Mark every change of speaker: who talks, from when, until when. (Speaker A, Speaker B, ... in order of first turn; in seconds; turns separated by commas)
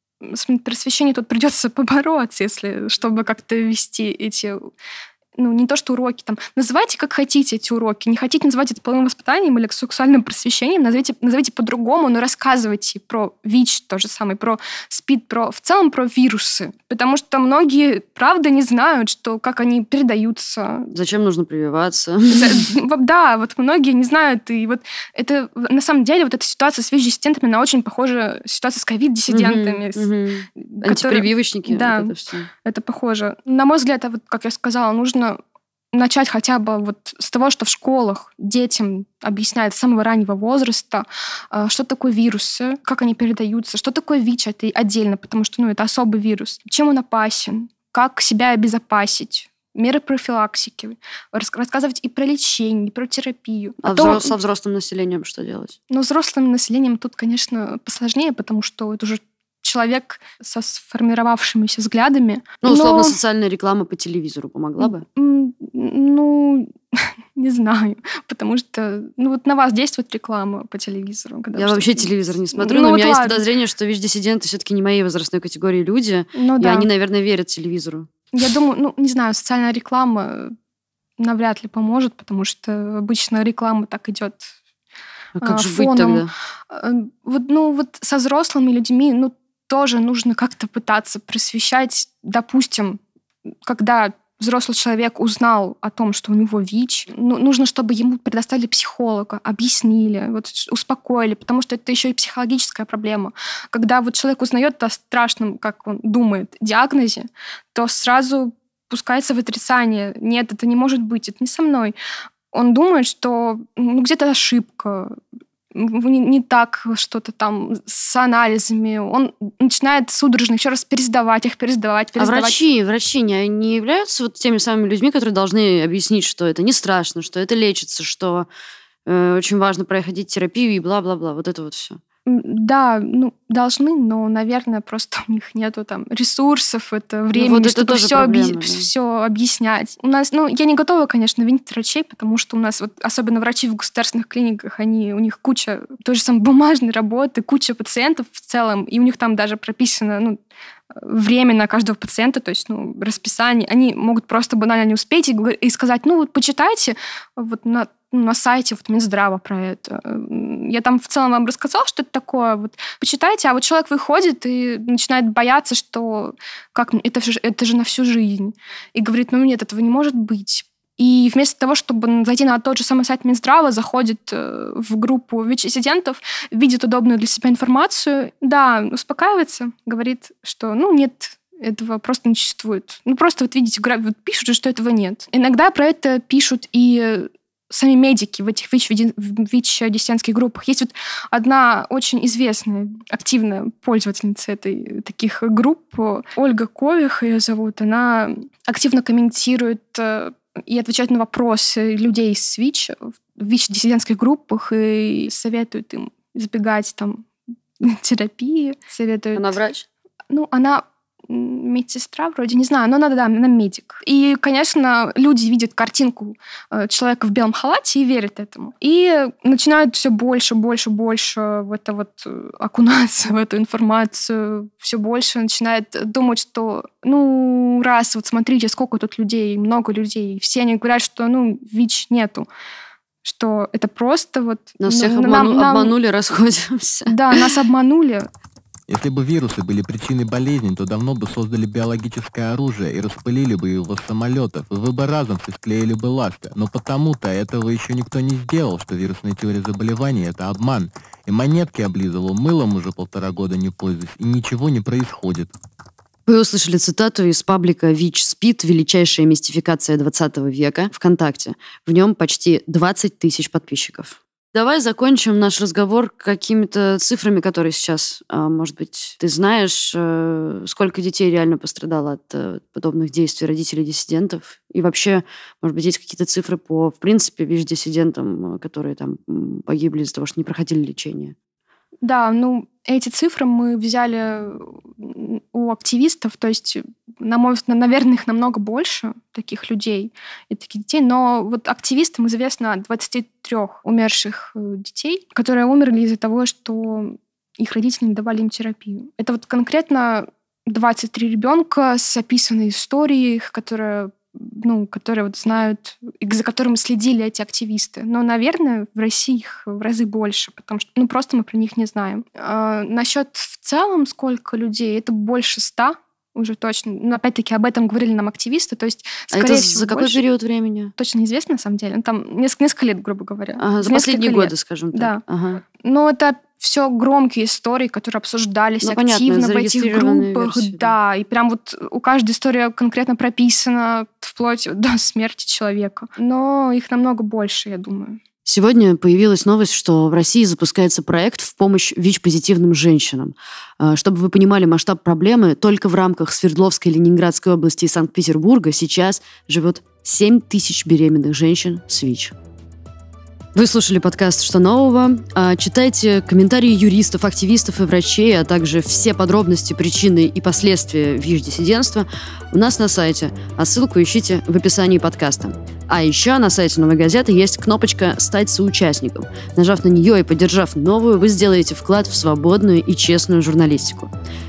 Speaker A: 0.2-4.7, Speaker A: 5.4-20.9, Speaker B: 20.9-22.7, Speaker A: 22.3-30.1, Speaker B: 29.3-32.5, Speaker A: 30.6-35.4, Speaker A: 35.9-54.3, Speaker B: 53.8-55.8, Speaker A: 55.9-63.2, Speaker B: 62.6-65.0, Speaker A: 64.8-73.4, Speaker B: 71.5-78.1, Speaker A: 76.3-76.9, Speaker A: 78.3-80.5, Speaker A: 81.2-84.5, Speaker B: 85.3-86.3, Speaker A: 85.4-93.0, Speaker A: 93.6-111.9, Speaker A: 112.5-115.2, Speaker A: 115.7-122.6, Speaker B: 122.2-128.5, Speaker B: 129.1-132.0, Speaker A: 132.2-150.4, Speaker B: 137.3-138.9, Speaker A: 150.9-207.2, Speaker A: 207.8-209.5, Speaker B: 209.3-209.9, Speaker A: 210.3-232.5, Speaker A: 233.2-235.9, Speaker B: 234.8-237.4, Speaker A: 237.1-238.3, Speaker C: 238.9-255.5, Speaker B: 256.3-281.3, Speaker A: 282.0-320.2, Speaker B: 319.3-320.9, Speaker A: 321.0-338.2, Speaker B: 323.6-325.6, Speaker B: 328.8-330.9, Speaker B: 338.4-352.3, Speaker B: 353.5-374.1